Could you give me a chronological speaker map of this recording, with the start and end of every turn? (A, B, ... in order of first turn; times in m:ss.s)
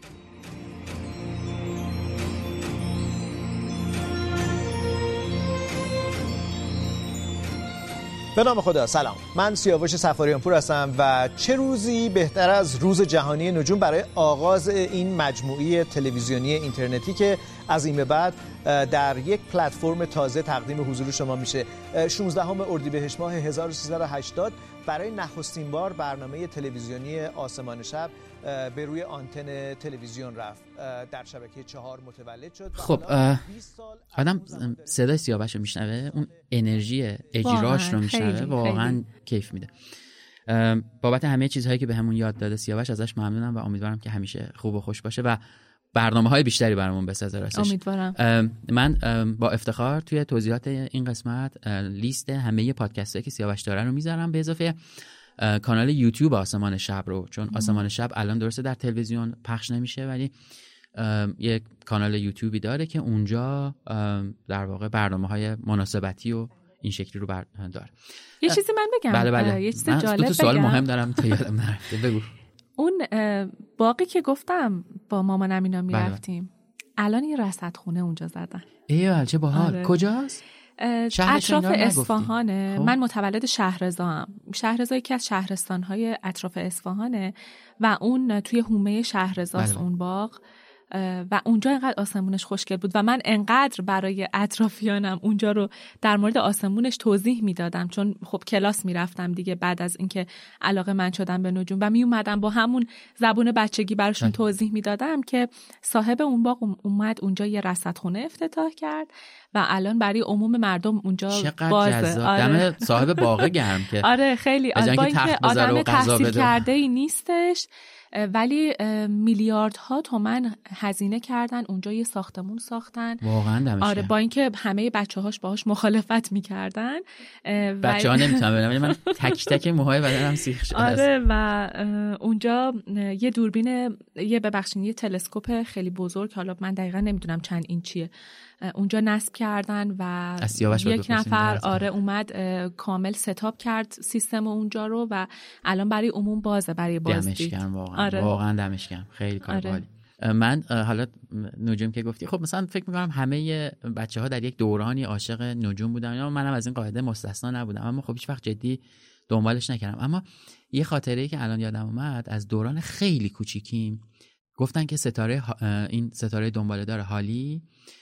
0:08.4-0:34.9 A
0:32.8-0:33.5 B
0:34.2-0:39.7 B
0:37.4-0:39.0 C
0:40.5-0:45.4 B
0:45.9-0:54.8 B
0:47.6-0:48.2 C
0:55.4-1:00.3 B
0:57.5-0:57.8 C
1:01.0-1:07.9 B
1:08.4-1:10.9 C
1:09.1-1:12.3 B
1:12.8-1:18.6 C
1:15.9-1:16.2 B
1:18.9-1:20.4 B
1:19.5-1:20.0 C
1:20.8-1:30.4 C
1:21.1-1:23.0 B
1:29.6-1:29.8 B
1:30.9-1:53.5 C
1:51.3-1:54.1 B
1:54.0-2:03.2 C
1:54.8-1:56.6 B
2:03.2-2:04.1 B
2:03.8-2:09.1 C
2:07.8-2:11.0 B
2:10.7-2:18.1 C
2:18.6-2:28.3 C
2:20.4-2:21.8 B
2:27.1-2:44.0 B
2:29.5-2:29.8 C
2:44.6-2:47.6 B